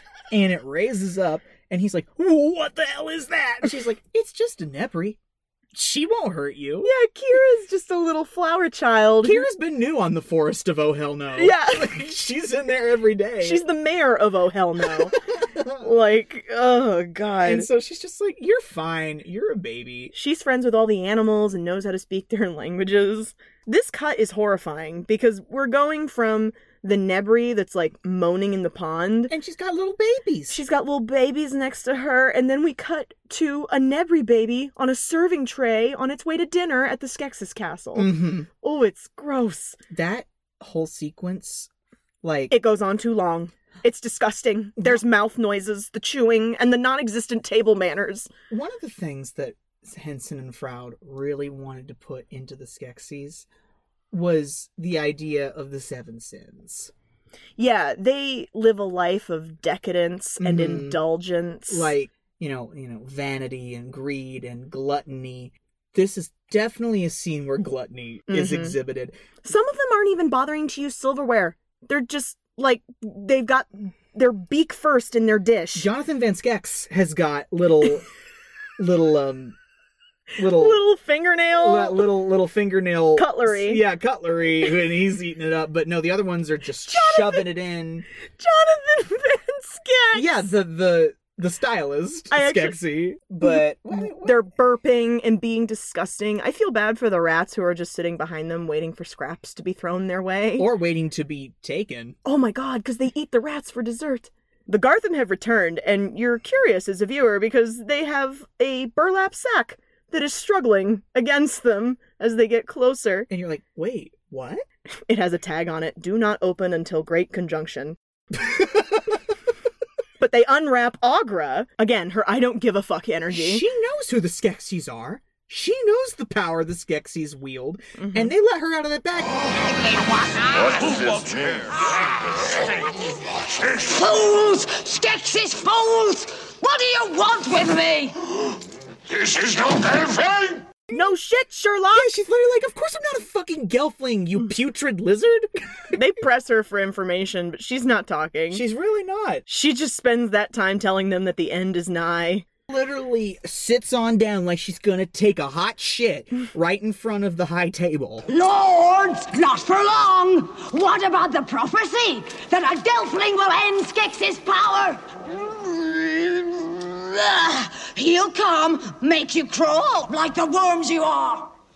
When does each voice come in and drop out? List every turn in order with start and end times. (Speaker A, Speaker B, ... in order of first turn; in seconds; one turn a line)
Speaker A: 0.3-5.2
Speaker A: 5.7-6.9
Speaker B: 6.8-9.5
Speaker A: 9.2-13.6
Speaker B: 11.3-12.0
Speaker B: 13.4-15.2
Speaker A: 14.8-15.9
Speaker B: 15.8-17.7
Speaker A: 17.4-20.1
Speaker B: 20.1-29.3
Speaker A: 29.3-30.6
Speaker B: 30.5-39.8
Speaker A: 37.9-38.5
Speaker A: 39.9-41.7
Speaker A: 42.2-42.5
Speaker B: 42.5-48.3
Speaker A: 44.8-45.0
Speaker A: 48.5-53.5
Speaker A: 54.1-56.9
Speaker B: 57.6-61.9
Speaker A: 60.4-61.0
Speaker A: 61.7-69.1
Speaker B: 68.3-68.8
Speaker B: 69.4-75.9
Speaker A: 75.7-78.1
Speaker A: 78.8-79.5
Speaker B: 80.3-82.1
Speaker A: 80.4-80.8
Speaker A: 81.5-88.0
Speaker B: 83.2-83.8
Speaker B: 86.8-87.5
Speaker B: 88.4-90.5
Speaker A: 90.1-94.4
Speaker B: 92.3-92.8
Speaker B: 93.4-100.7
Speaker A: 100.5-102.2
Speaker B: 102.2-113.3
Speaker A: 113.3-114.6
Speaker B: 115.1-118.0
Speaker A: 118.3-119.0
Speaker B: 120.2-123.6
Speaker A: 123.3-129.3
Speaker B: 128.0-128.3
Speaker C: 129.5-131.1
Speaker D: 130.6-132.9
Speaker C: 131.8-132.3
Speaker C: 133.7-138.2
Speaker D: 139.1-140.7
Speaker B: 140.9-142.1
Speaker A: 141.9-146.0
Speaker B: 145.9-148.6
Speaker A: 148.5-149.4
Speaker B: 149.5-152.4
Speaker A: 152.7-158.3
Speaker C: 158.3-171.5